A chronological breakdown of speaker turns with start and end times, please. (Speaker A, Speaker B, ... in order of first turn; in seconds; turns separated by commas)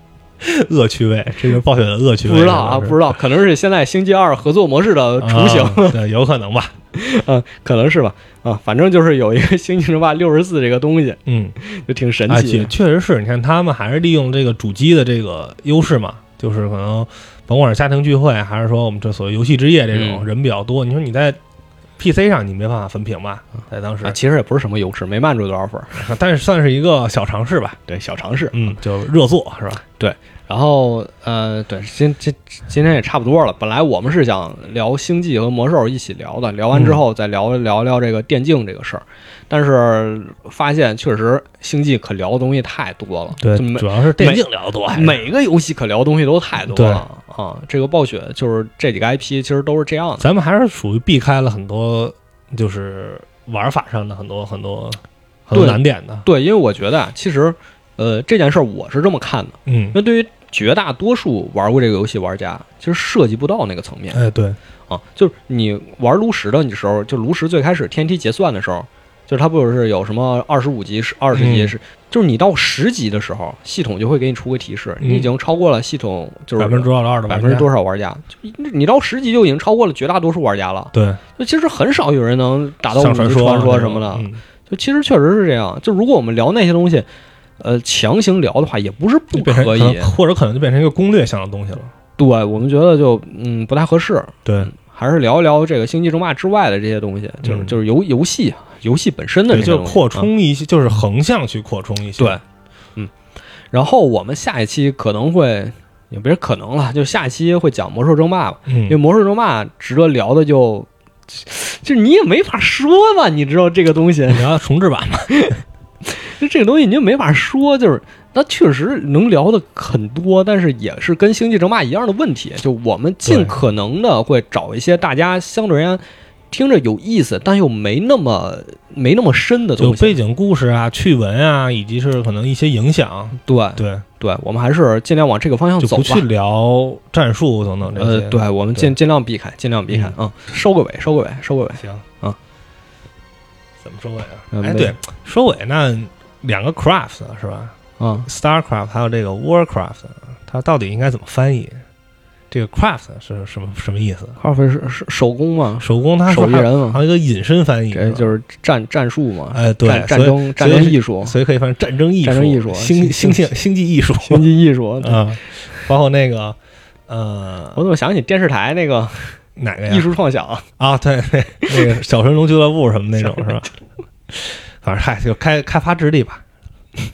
Speaker A: 0.4-3.1, Speaker B: 2.3-6.0, Speaker A: 5.2-6.7, Speaker B: 6.9-12.7, Speaker A: 11.3-11.6, Speaker A: 12.3-21.4, Speaker B: 19.9-20.3, Speaker A: 22.0-24.2, Speaker B: 24.0-26.1, Speaker A: 25.9-27.8, Speaker B: 27.9-28.7, Speaker A: 28.5-29.8, Speaker B: 30.0-50.3, Speaker A: 36.7-37.0, Speaker A: 43.4-45.2, Speaker A: 46.7-47.0, Speaker A: 50.2-56.2, Speaker B: 55.5-64.2, Speaker A: 59.7-60.0, Speaker A: 64.1-64.6, Speaker B: 64.9-87.1, Speaker A: 71.3-71.7, Speaker A: 75.0-75.3, Speaker A: 76.6-77.7, Speaker A: 80.9-81.2, Speaker A: 82.9-84.4, Speaker B: 87.6-90.1, Speaker A: 89.3-91.9, Speaker B: 92.2-100.3, Speaker A: 94.5-94.7, Speaker A: 97.4-97.8, Speaker A: 99.5-102.4, Speaker B: 103.7-114.5, Speaker A: 108.7-109.0, Speaker A: 114.3-115.5, Speaker B: 115.3-130.2, Speaker A: 123.3-123.6, Speaker A: 129.8-134.1, Speaker B: 133.4-136.2, Speaker A: 135.8-138.9, Speaker B: 137.9-142.4, Speaker A: 141.8-142.1, Speaker A: 143.8-151.8, Speaker B: 144.5-144.9, Speaker B: 148.0-148.3, Speaker A: 152.5-154.4, Speaker B: 154.4-157.0, Speaker A: 155.8-158.3, Speaker B: 157.9-161.3, Speaker A: 159.5-164.5, Speaker B: 162.2-163.5, Speaker B: 164.2-165.9, Speaker A: 165.0-166.6, Speaker A: 167.1-167.8, Speaker B: 167.8-170.7, Speaker A: 169.6-170.1, Speaker A: 170.8-173.7, Speaker A: 174.3-176.4